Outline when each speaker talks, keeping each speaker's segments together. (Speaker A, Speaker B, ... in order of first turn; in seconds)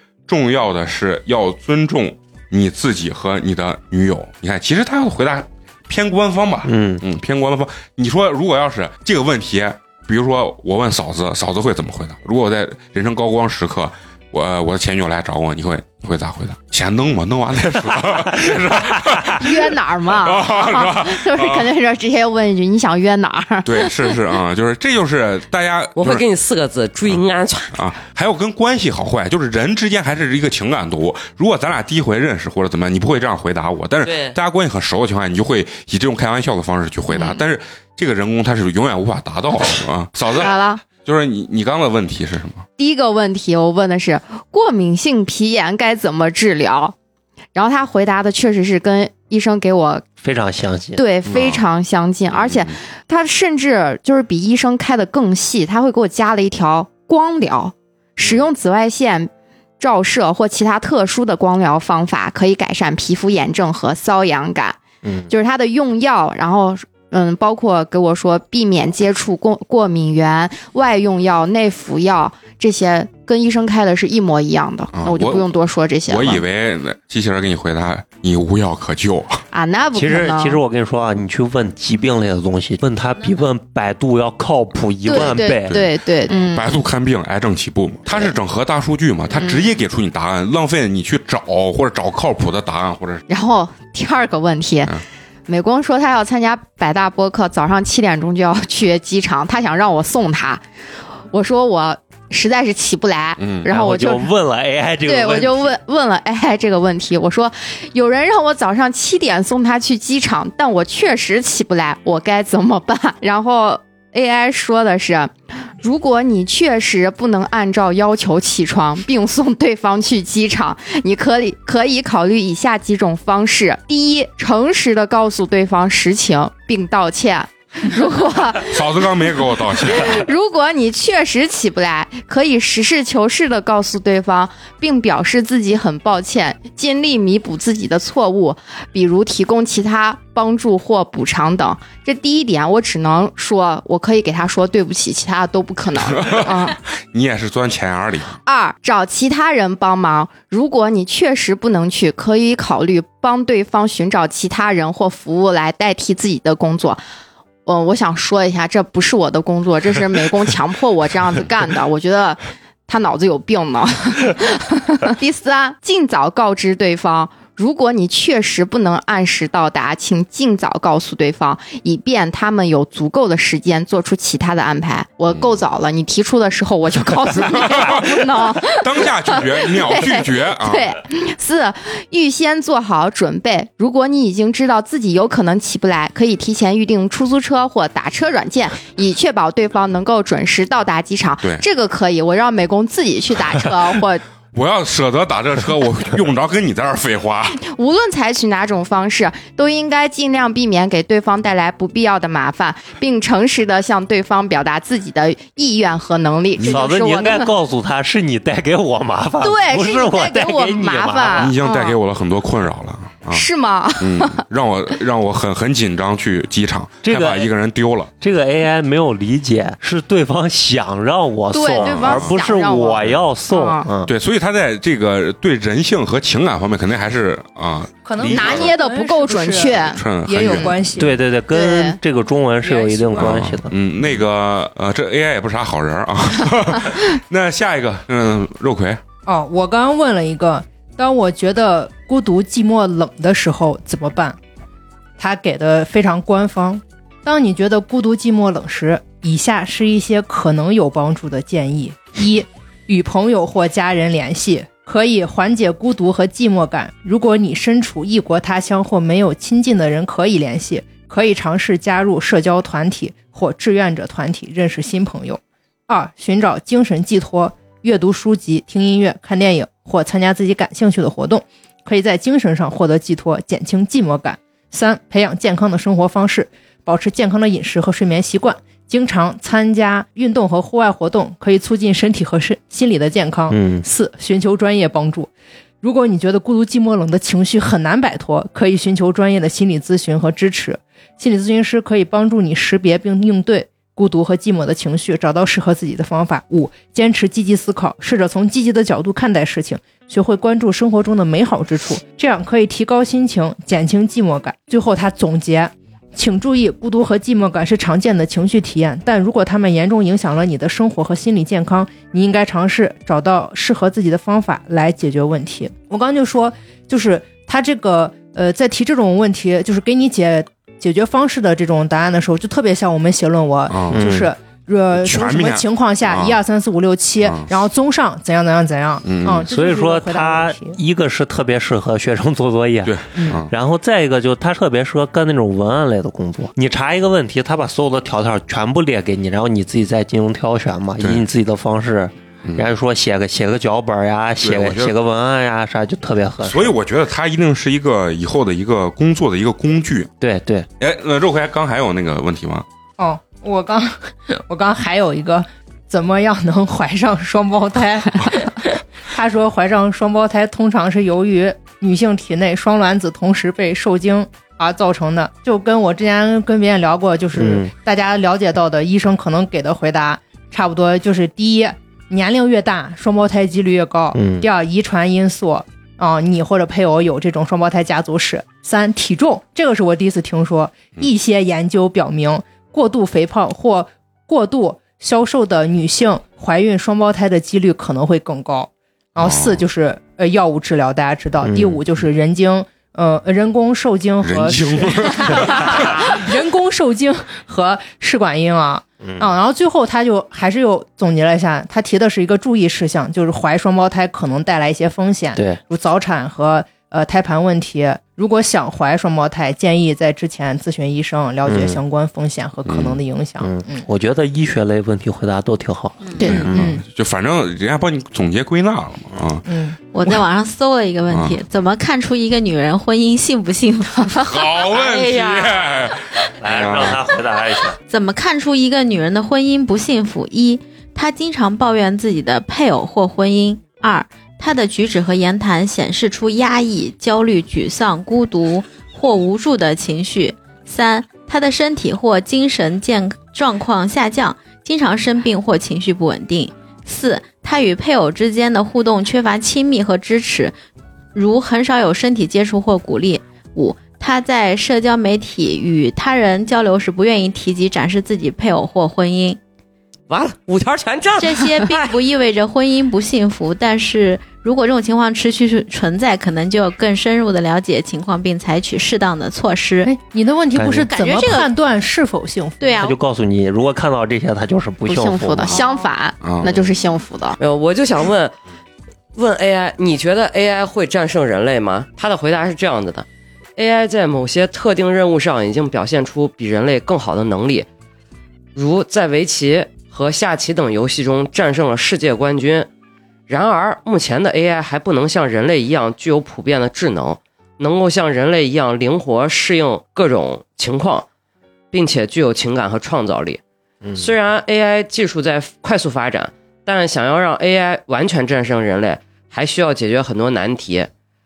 Speaker A: 0.3-21.7, 23.6-26.2, 27.7-42.7, 51.3-51.6, 52.3-52.8, 74.9-75.5, 76.1-79.4, 86.4-93.2, 103.4-103.7, 128.7-130.3, 146.1-148.4, 177.4-180.9, 194.5-197.6, 211.3-213.5, 214.0-218.1, 221.8-222.4, 224.1-227.9, 229.8-230.7, 233.2-239.0, 323.7-324.0, 324.9-326.4, 327.2-327.5, 329.0-329.5, 332.9-333.5, 344.4-344.9, 346.4-350.1, 350.8-352.6, 389.2-389.6, 394.2-396.2, 412.7-413.0, 416.2-419.5, 421.1-421.4, 424.2-427.0, 476.2-476.6
Speaker B: 6.7-7.0, 50.2-51.0, 65.0-65.3, 80.0-85.8, 103.7-105.8, 206.6-211.5, 217.0-217.5, 218.2-224.1, 228.2-228.7, 231.0-233.7, 283.5-283.9, 323.9-324.3, 329.5-346.7, 350.2-350.7, 367.4-367.7, 374.1-374.5, 391.4-391.8, 399.0-399.3, 405.4-405.6, 411.5-411.8, 413.4-416.7, 426.4-427.8, 470.6-470.9, 472.8-475.6, 503.8-504.1
Speaker C: 19.4-24.2, 37.1-37.4, 40.3-40.8, 42.8-47.0, 47.5-50.0, 51.0-76.4, 79.5-80.6, 85.1-86.8, 89.4-89.7, 93.3-95.0, 95.5-100.6, 101.3-104.3, 105.0-146.8, 148.4-157.0, 157.7-194.2, 197.6-207.5, 209.4-212.0, 213.3-214.4, 221.5-223.9, 228.3-230.7, 231.5-232.0, 474.9-477.4
Speaker D: 26.0-27.8, 34.0-34.4, 460.1-461.9, 477.4-478.3, 479.1-483.1, 483.6-487.7, 488.6-492.7, 493.3-501.1, 501.7-503.4, 504.0-510.9
Speaker E: 228.0-231.2, 232.6-233.4, 239.3-244.4, 245.2-285.3, 285.8-330.8, 333.1-333.4, 353.0-413.9, 416.2-416.8, 419.5-419.8, 469.8-472.8
Speaker F: 416.0-416.4, 419.9-425.4, 427.9-450.6, 451.1-459.4, 461.2-469.9, 470.7-471.5, 472.6-473.0, 475.5-475.8